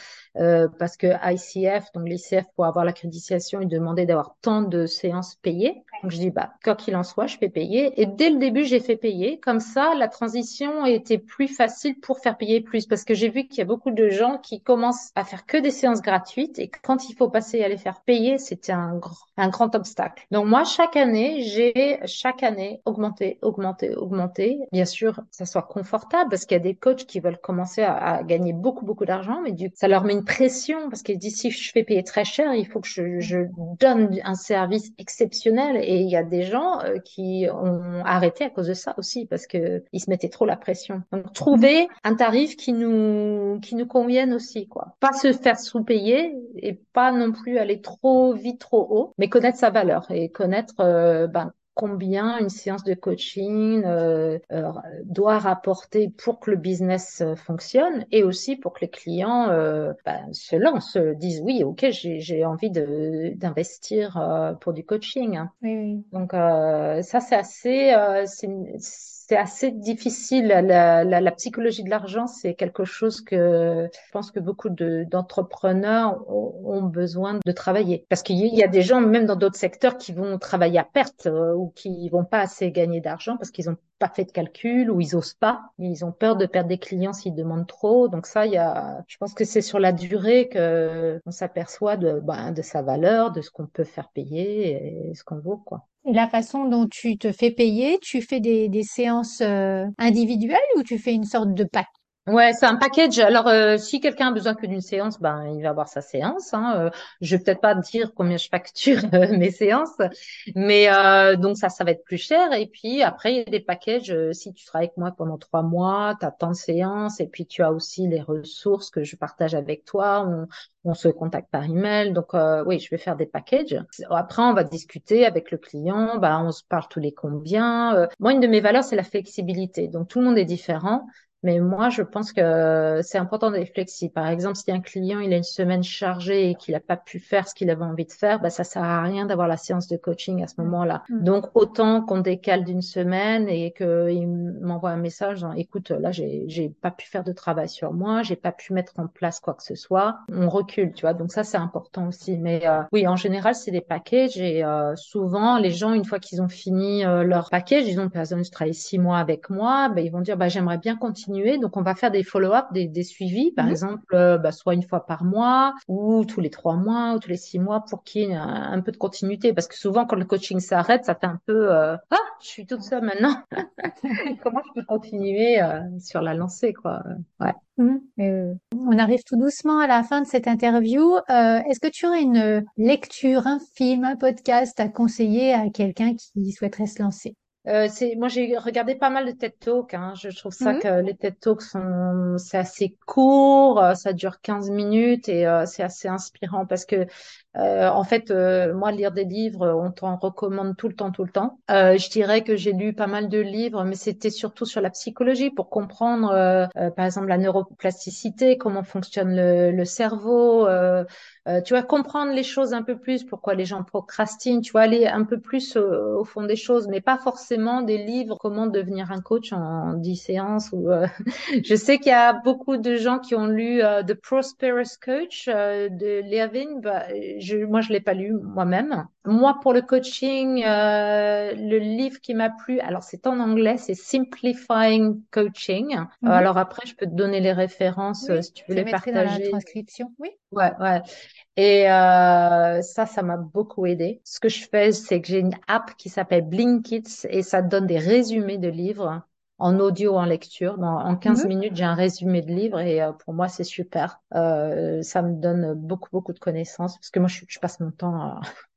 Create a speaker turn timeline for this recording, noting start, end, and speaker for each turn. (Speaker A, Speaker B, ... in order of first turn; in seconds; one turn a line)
Speaker A: 0.4-65.5
Speaker B: 65.6-66.0
Speaker A: 66.1-95.8
Speaker B: 96.0-101.9
Speaker A: 102.3-110.0
Speaker A: 110.5-177.6
Speaker B: 177.8-187.3
Speaker A: 187.6-221.1
Speaker B: 190.6-190.8
Speaker A: 221.6-239.6
Speaker B: 236.2-236.5
Speaker B: 238.2-240.3
Speaker A: 240.5-241.0
Speaker A: 241.6-258.4
Speaker B: 251.2-251.5